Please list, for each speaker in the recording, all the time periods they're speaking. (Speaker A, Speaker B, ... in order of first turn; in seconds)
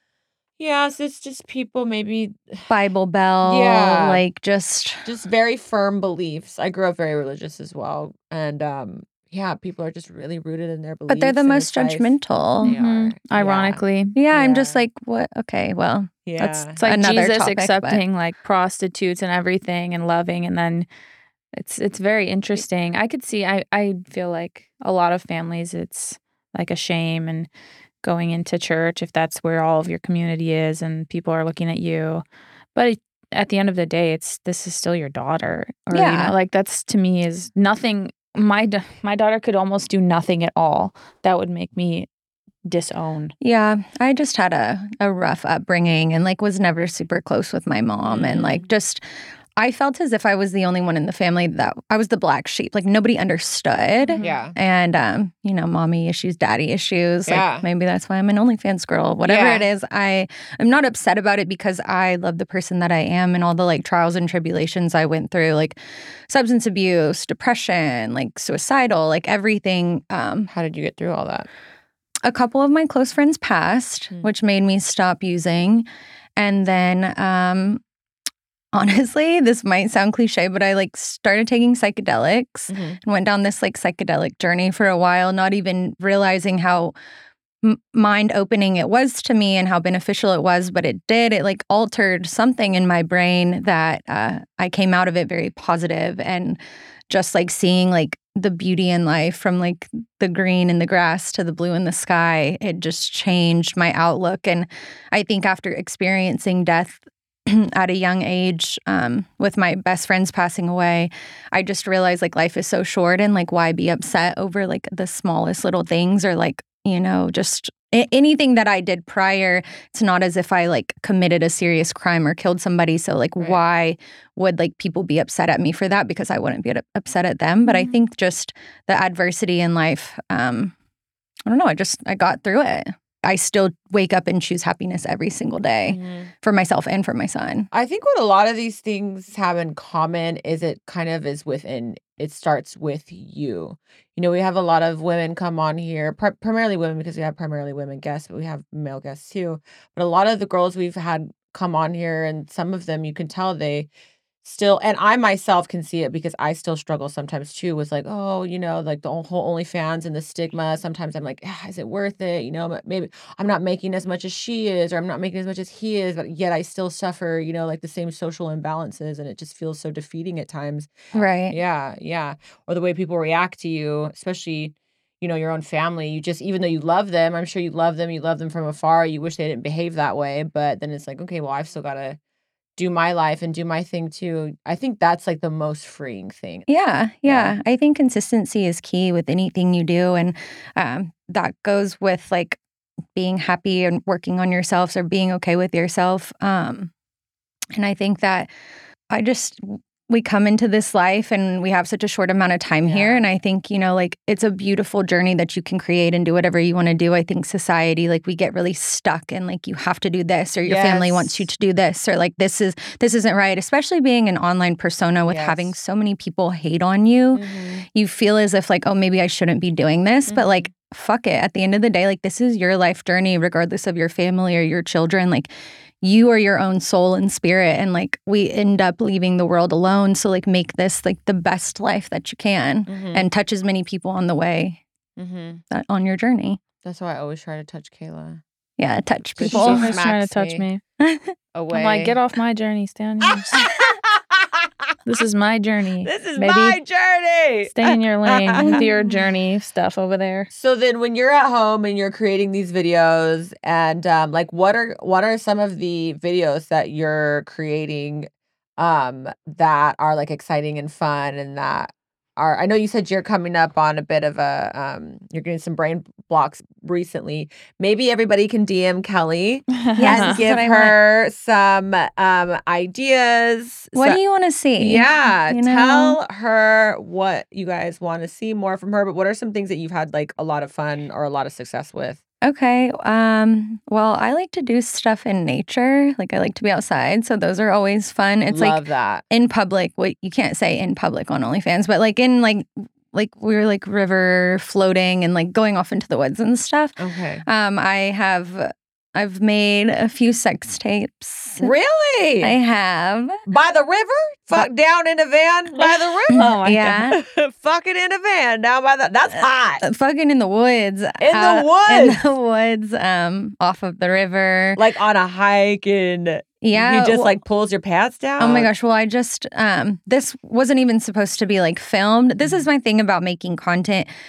Speaker A: 0.6-2.7, 3.4-4.2, 5.0-14.8, 16.2-16.8, 48.0-48.7, 54.2-54.5, 57.3-57.6, 59.2-59.7, 70.5-71.5, 82.7-83.0, 135.8-136.3, 137.7-153.9, 154.4-182.2, 182.8-186.7, 187.2-187.6, 202.8-203.2, 210.6-211.4, 215.3-215.7, 217.3-217.8, 220.3-220.7, 232.9-233.3, 235.2-235.6, 236.8-238.4, 239.4-240.6, 241.5-242.2, 243.2-244.9, 246.0-248.9, 250.5-274.2, 274.8-282.2, 288.5-289.2, 297.0-297.4, 301.6-302.5, 303.4-306.6, 307.1-309.8, 311.2-312.2, 314.8-318.7
Speaker B: 2.7-5.1, 11.1-12.7, 14.1-18.0, 35.9-36.3, 43.4-49.0, 49.5-65.8, 66.3-70.5, 72.2-75.8, 76.4-77.8, 78.7-86.9, 87.6-96.6, 97.1-130.7, 131.5-137.7, 171.1-171.6, 186.7-192.6, 193.1-196.9, 197.7-198.5, 199.1-225.5, 226.0-234.8, 235.7-236.6, 238.8-239.9, 241.0-241.3, 248.6-249.1, 270.0-271.0, 273.9-276.2, 282.4-301.7, 302.4-303.4, 306.4-307.2, 309.8-314.8, 316.6-317.4, 318.4-324.1
Speaker C: 12.6-14.2, 16.8-20.9, 21.6-27.5, 28.0-32.2, 32.7-42.1, 42.6-43.3, 54.0-54.4, 127.7-127.9, 239.4-240.8, 241.7-243.5, 245.0-246.8, 247.7-250.5, 269.8-270.4, 306.3-307.1